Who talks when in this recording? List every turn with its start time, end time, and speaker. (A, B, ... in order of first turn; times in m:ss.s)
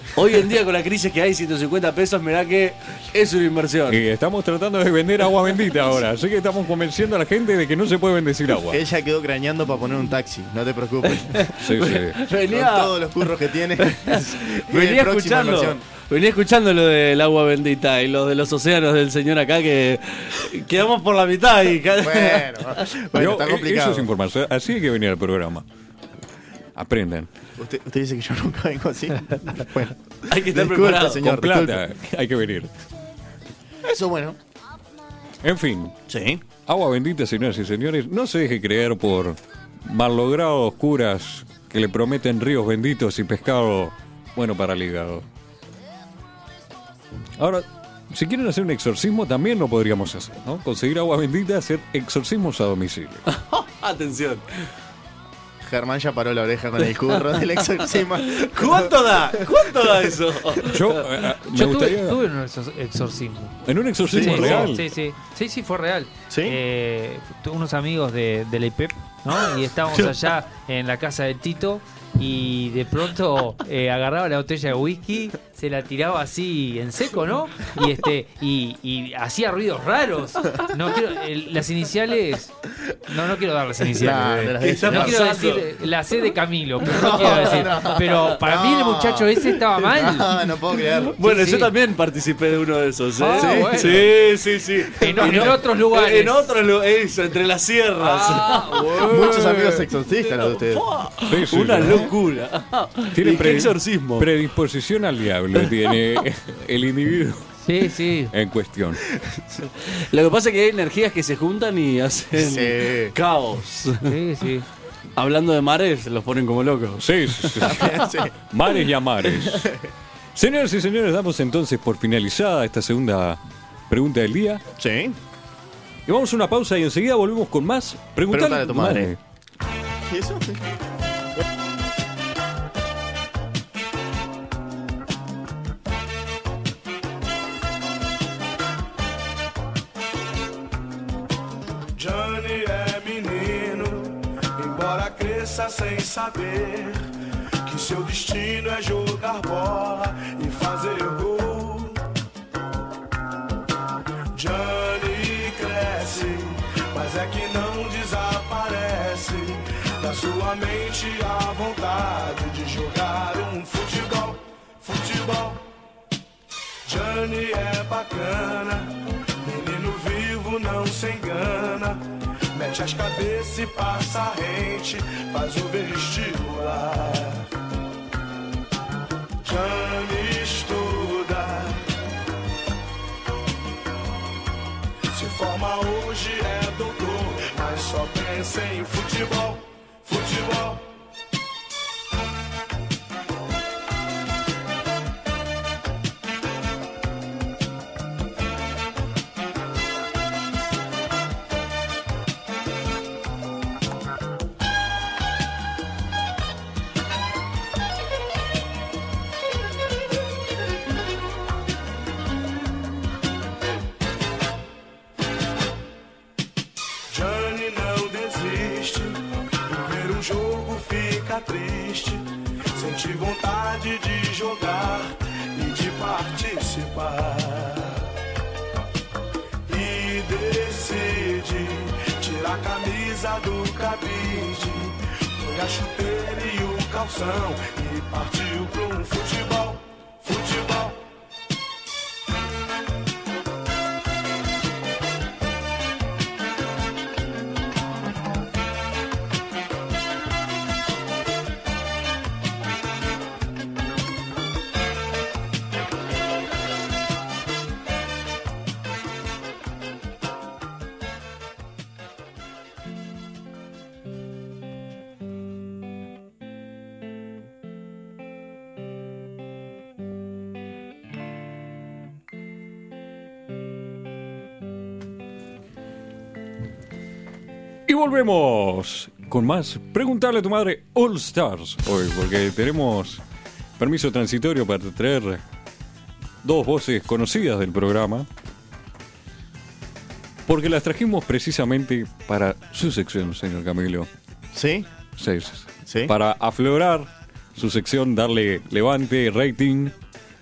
0:00.2-0:04.0 A
0:03.9-0:08.8 B
0:08.7-0:11.5 C
0:11.2-0:12.9 A
0:11.6-0:12.2 B
0:12.4-0:15.8 C
0:13.8-0:22.7 A
0:22.0-0:24.1 C
0:23.1-0:25.6 B
0:26.8-0:27.3 B
0:27.6-0:31.8 C
0:30.3-0:31.2 A
0:31.1-0:32.7 B
0:33.8-0:34.4 C
0:35.4-0:36.0 B
0:36.1-0:36.4 C
0:36.6-0:45.2 B
0:47.4-0:53.2 B
0:53.3-0:54.6 A
0:55.6-0:59.9 C
0:58.3-1:01.2 A
1:00.7-1:02.2 B
1:01.5-1:03.6 D
1:03.6-1:04.8 B
1:04.0-1:04.7 C
1:04.1-1:30.4 D
1:06.3-1:06.6 C
1:23.9-1:25.2 C
1:24.6-1:25.7 A
1:26.8-1:31.2 C
1:27.0-1:27.7 A
1:31.0-1:44.3 A
1:31.2-1:31.7 D
1:33.2-1:34.1 D
1:33.4-1:34.1 C
1:35.0-1:36.5 D
1:35.0-1:35.5 C
1:38.0-1:39.2 D
1:38.9-1:40.9 C
1:41.3-1:42.1 B
1:43.1-1:47.5 B
1:47.6-1:48.3 D
1:48.3-1:49.0 B
1:49.2-1:49.6 C
1:49.6-1:54.1 A
1:52.3-1:53.1 C
1:54.0-1:54.7 D
1:55.2-1:58.1 A
1:57.0-1:59.8 B
1:57.6-1:58.3 C
2:00.3-2:04.6 B
2:04.8-2:05.2 C
2:06.1-2:09.2 B
2:08.3-2:09.1 C
2:10.0-2:10.8 C
2:22.0-2:27.0 E
2:27.6-2:32.0 E
2:34.3-2:45.7 E
2:46.8-2:52.0 E
2:52.5-2:57.5 E
2:59.4-3:01.9 E
3:05.1-3:10.9 E
3:37.1-3:48.1 E
3:49.6-4:01.0 E
4:37.9-4:43.2 B
4:43.8-4:45.4 B
4:46.4-4:48.3 B
4:50.5-4:54.1 B
4:54.5-4:54.9 C
4:55.2-4:59.9 B
4:55.8-4:56.1 C